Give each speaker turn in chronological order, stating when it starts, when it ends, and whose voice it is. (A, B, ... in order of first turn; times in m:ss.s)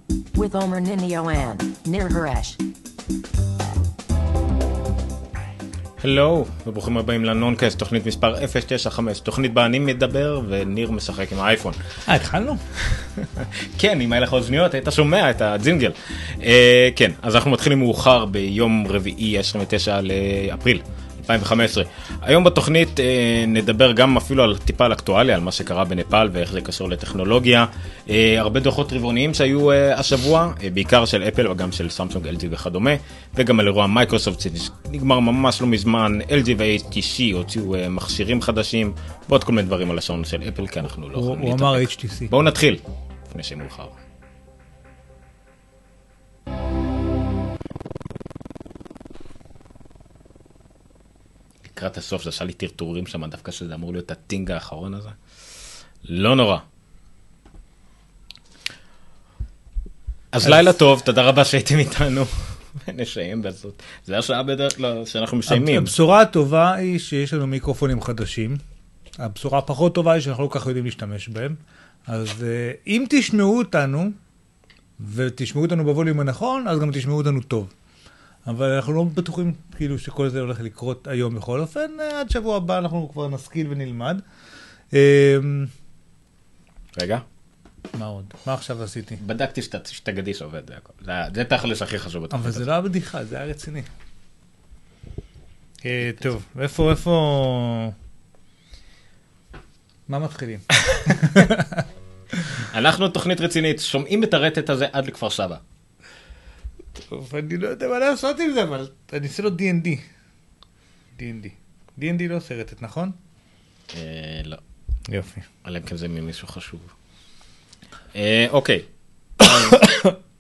0:00.3-0:02.6 A
0:06.0-0:11.8 B
0:12.1-0:12.6 C
0:12.8-0:44.0 B
0:41.1-0:42.3 C
0:51.6-0:55.2 B
0:56.0-0:56.6 B
1:00.3-1:06.0 B
1:05.5-1:08.6 C
1:09.2-1:14.2 C
1:15.0-1:17.7 C
1:18.5-1:24.2 C
1:24.9-1:25.7 C
1:26.9-1:27.2 B
1:27.9-1:29.2 C
1:29.2-1:32.6 B
1:32.3-1:33.9 C
1:35.8-1:37.9 C
1:40.1-1:41.8 C
1:42.6-1:45.6 B
1:47.0-1:50.0 C
1:51.2-1:53.2 C
1:53.9-1:54.6 B
1:55.1-1:55.5 C
1:55.6-1:56.9 B
1:58.1-1:58.9 B
1:59.4-1:59.9 B
1:59.7-2:00.1 C